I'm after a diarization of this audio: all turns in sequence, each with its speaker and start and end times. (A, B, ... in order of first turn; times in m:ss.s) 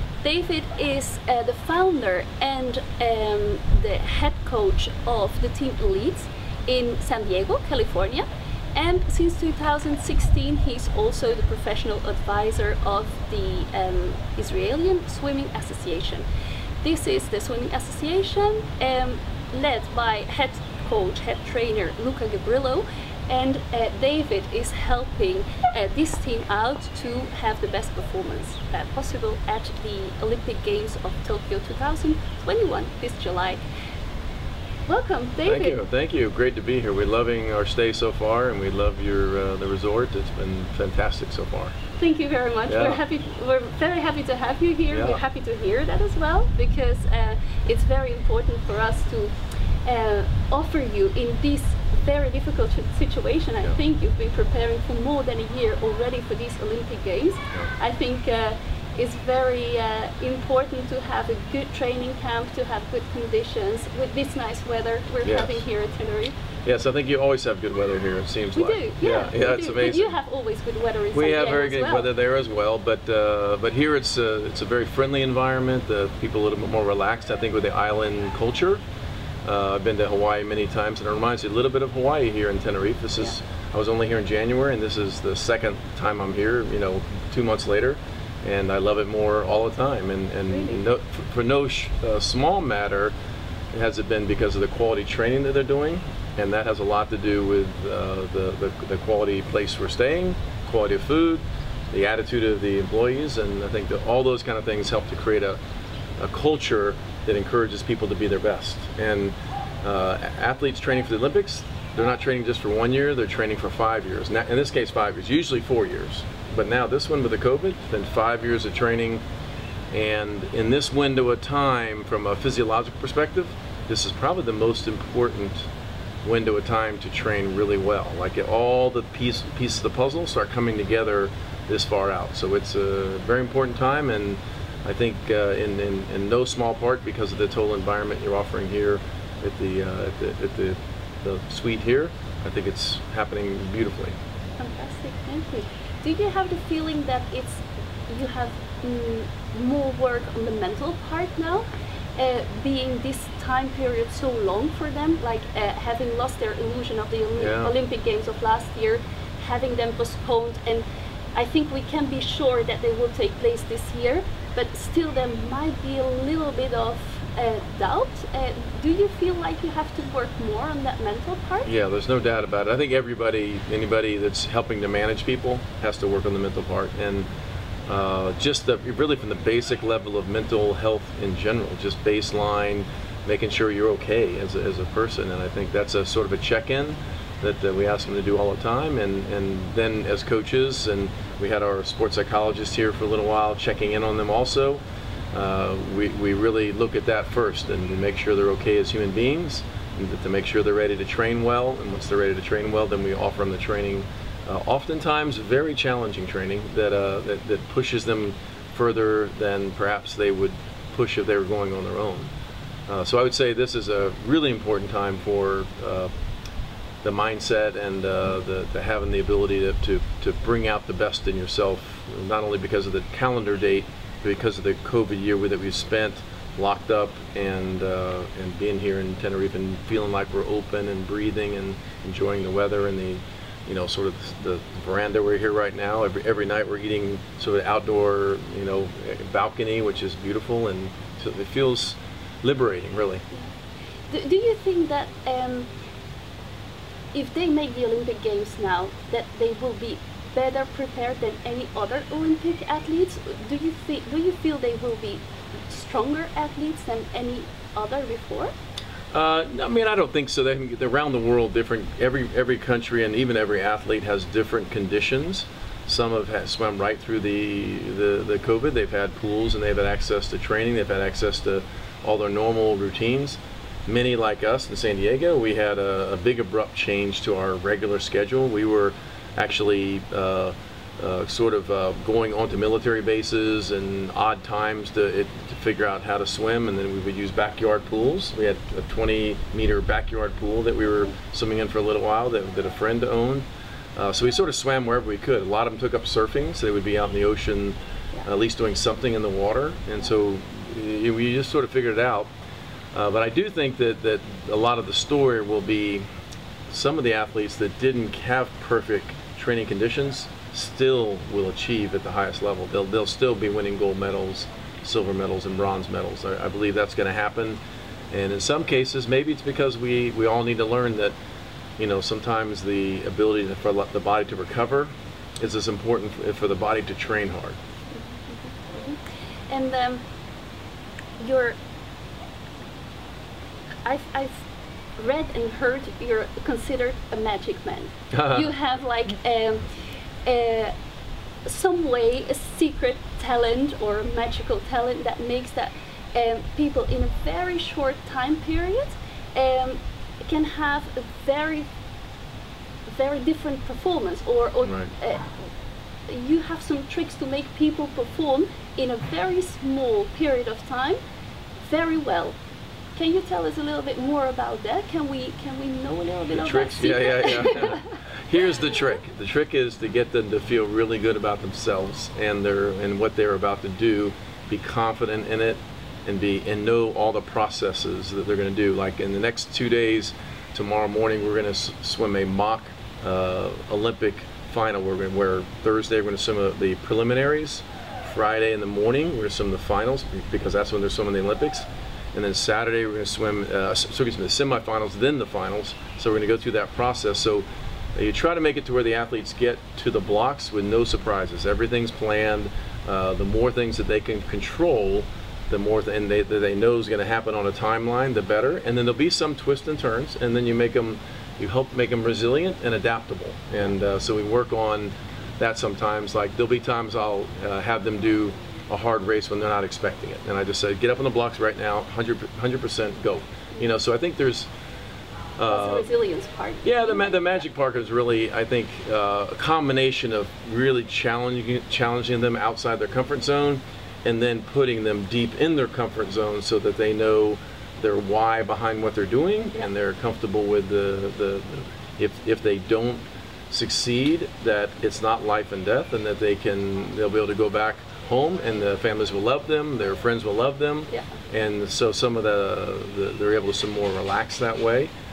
0:00.2-0:16.2 A
0:16.8-0:33.6 A
0:34.9-0:35.8 A
0:35.4-0:41.7 B
0:42.0-1:06.4 A
0:42.7-0:43.0 B
0:44.9-0:45.2 B
1:05.2-1:05.6 B
1:06.6-1:10.1 B
1:08.5-1:12.1 A
1:11.1-1:18.8 B
1:19.4-1:33.1 B
1:30.5-1:30.8 A
1:33.7-1:45.6 B
1:46.2-1:59.2 B
1:59.9-2:05.7 B
2:06.2-2:24.1 B
2:24.6-2:51.7 A
2:37.4-2:37.7 B
2:51.6-2:57.3 B
2:57.9-3:14.8 B
3:15.3-3:32.3 B
3:32.9-3:36.1 B
3:37.0-4:03.2 B
4:04.1-4:05.7 A
4:07.1-4:18.5 A
4:19.1-5:02.3 B
5:02.9-5:06.0 B
5:06.7-5:17.6 B
5:18.1-5:21.2 B
5:21.8-5:27.6 B
5:27.9-5:30.0 A
5:31.2-5:31.6 A
5:33.8-5:34.4 A
5:35.0-5:39.7 A
5:38.1-5:38.5 B
5:40.2-5:40.7 A
5:41.4-5:51.7 A
5:52.9-5:55.5 A
5:54.6-5:54.9 B
5:56.1-6:01.0 A
6:01.6-6:02.4 A
6:02.9-6:07.9 A
6:06.3-7:04.5 B
7:05.4-7:05.9 B
7:05.5-7:07.4 A
7:06.6-7:34.9 B